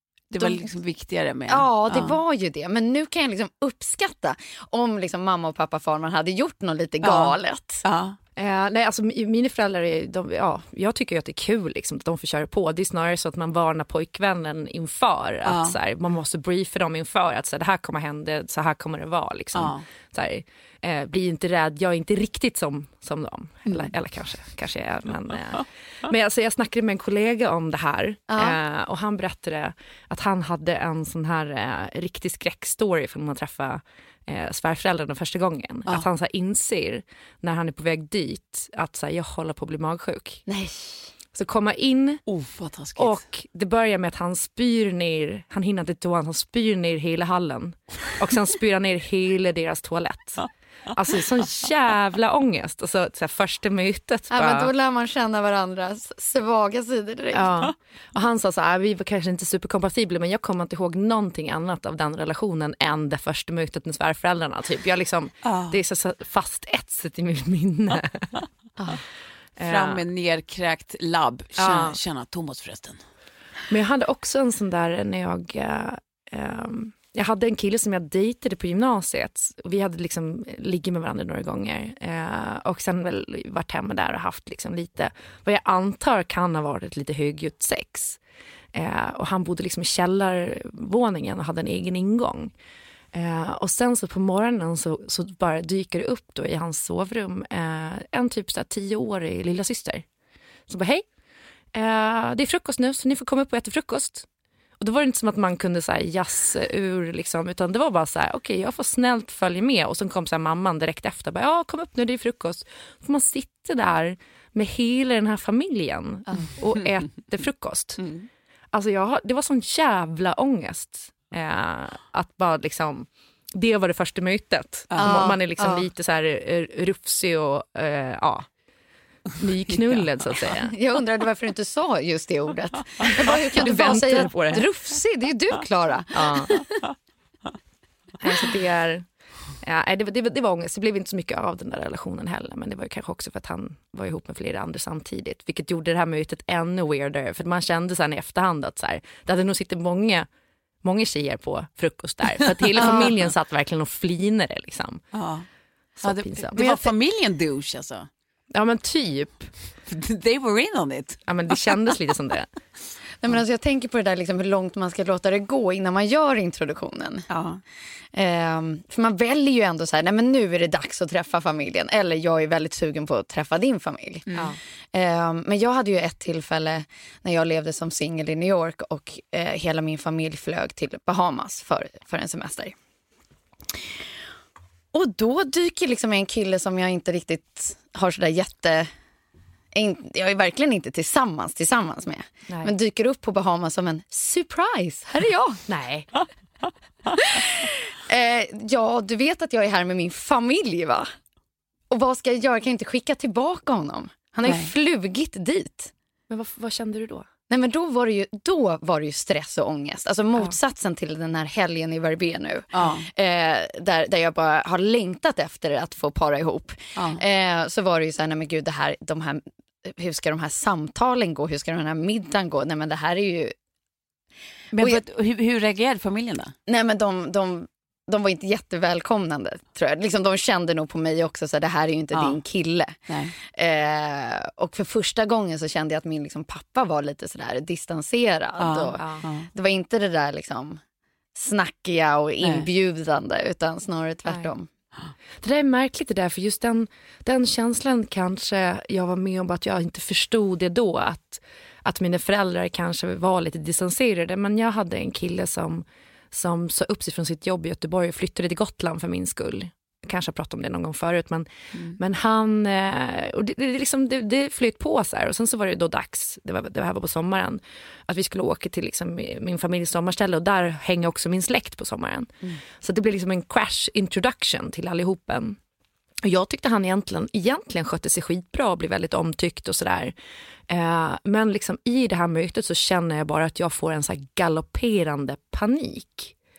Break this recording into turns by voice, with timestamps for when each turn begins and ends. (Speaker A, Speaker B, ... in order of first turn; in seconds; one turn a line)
Speaker A: 0.3-2.2
Speaker B: 0.4-0.6
Speaker B: 1.5-7.8
Speaker A: 7.0-8.2
Speaker C: 8.4-40.4
Speaker A: 15.4-15.8
Speaker A: 19.5-19.8
Speaker A: 23.7-23.9
Speaker B: 28.3-28.6
Speaker B: 40.5-41.1
Speaker C: 41.3-42.2
Speaker A: 42.3-43.2
Speaker C: 43.0-54.7
Speaker B: 54.3-57.6
Speaker C: 57.3-68.3
Speaker A: 65.5-65.8
Speaker C: 69.6-70.0
Speaker A: 69.6-73.0
Speaker C: 71.6-72.0
Speaker C: 73.7-88.2
Speaker C: 88.7-92.5
Speaker C: 93.1-100.0
Speaker C: 100.7-101.0
Speaker C: 101.7-104.2
Speaker C: 104.8-118.0
Speaker C: 118.7-128.5
Speaker A: 124.9-125.2
Speaker B: 125.0-125.8
Speaker C: 129.4-130.7
Speaker B: 130.7-136.7
Speaker C: 133.2-134.6
Speaker C: 136.1-136.6
Speaker C: 138.2-139.0
Speaker C: 139.6-150.3
Speaker C: 150.8-155.1
Speaker A: 152.7-153.1
Speaker B: 152.8-153.1
Speaker A: 155.1-155.5
Speaker C: 156.0-156.9
Speaker A: 156.0-158.1
Speaker C: 158.5-159.5
Speaker A: 159.9-161.7
Speaker C: 161.3-162.5
Speaker B: 163.2-167.2
Speaker A: 167.3-167.6
Speaker B: 168.1-174.3
Speaker A: 174.3-174.5
Speaker B: 174.9-182.7
Speaker B: 184.9-188.9
Speaker B: 189.8-195.6
Speaker C: 195.7-196.1
Speaker B: 197.1-201.1
Speaker B: 201.9-205.9
Speaker A: 204.5-204.7
Speaker C: 206.3-207.3
Speaker B: 207.5-223.5
Speaker A: 212.7-213.0
Speaker A: 217.0-217.2
Speaker A: 224.7-226.5
Speaker B: 226.7-240.8
Speaker A: 232.1-232.4
Speaker A: 233.1-233.3
Speaker A: 238.6-239.5
Speaker C: 239.0-239.2
Speaker B: 241.3-244.7
Speaker A: 242.4-242.7
Speaker C: 245.4-275.6
Speaker C: 276.2-280.1
Speaker C: 280.7-286.3